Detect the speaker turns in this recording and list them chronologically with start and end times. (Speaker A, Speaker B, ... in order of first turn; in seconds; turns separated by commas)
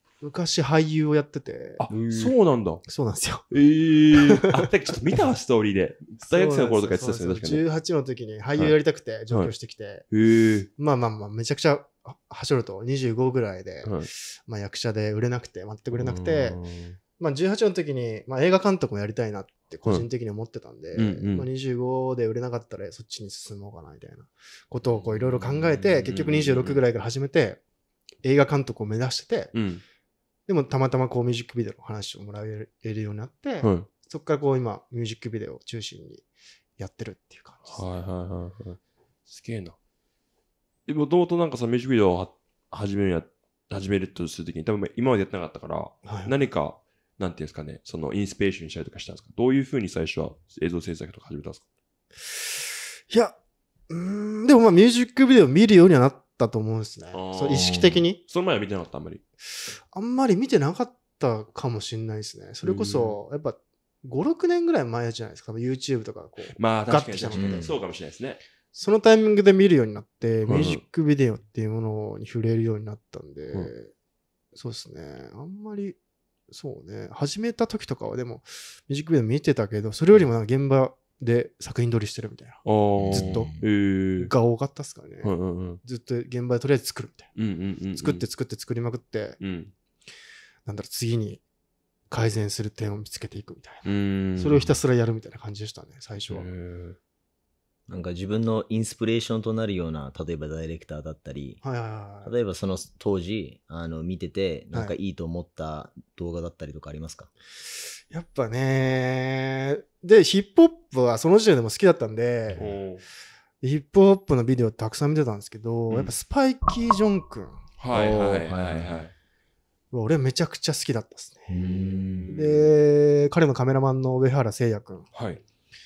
Speaker A: 0.2-1.9, Speaker B: 1.8-2.8, Speaker C: 1.9-2.3, Speaker A: 2.8-3.5, Speaker B: 3.5-7.6, Speaker A: 4.1-4.7, Speaker A: 6.2-10.1, Speaker B: 10.1-10.7, Speaker A: 10.8-16.6, Speaker B: 13.8-14.1, Speaker B: 15.9-17.0, Speaker A: 17.2-27.6, Speaker B: 20.9-21.5, Speaker C: 24.9-26.1, Speaker B: 26.0-26.8, Speaker A: 28.2-29.5, Speaker B: 29.5-29.8, Speaker A: 30.5-36.2, Speaker B: 33.6-33.9, Speaker A: 36.8-37.9, Speaker B: 37.6-39.8, Speaker B: 40.9-51.6, Speaker A: 46.0-46.4, Speaker A: 52.2-53.4, Speaker A: 53.9-58.2, Speaker B: 57.1-59.2, Speaker C: 57.5-58.0, Speaker A: 59.9-67.8, Speaker B: 62.6-63.2, Speaker B: 66.5-68.4, Speaker C: 67.3-67.7, Speaker A: 68.7-73.9, Speaker B: 70.5-70.8, Speaker A: 74.5-76.0, Speaker A: 76.5-83.5, Speaker B: 82.6-84.3, Speaker C: 83.0-83.7, Speaker A: 84.2-87.3, Speaker B: 85.2-85.8, Speaker B: 87.3-88.2, Speaker A: 88.0-89.4, Speaker B: 89.4-89.7, Speaker A: 90.6-91.4, Speaker A: 92.1-96.5, Speaker B: 93.8-94.7, Speaker B: 96.3-97.0, Speaker C: 97.9-101.6, Speaker A: 101.6-102.3, Speaker C: 102.2-107.3, Speaker A: 108.1-112.8, Speaker B: 112.5-113.0, Speaker A: 113.6-117.6, Speaker B: 117.8-119.1, Speaker C: 117.9-119.0, Speaker A: 119.9-121.7, Speaker C: 121.5-122.4, Speaker B: 122.1-122.6, Speaker A: 122.3-125.1, Speaker B: 125.1-125.4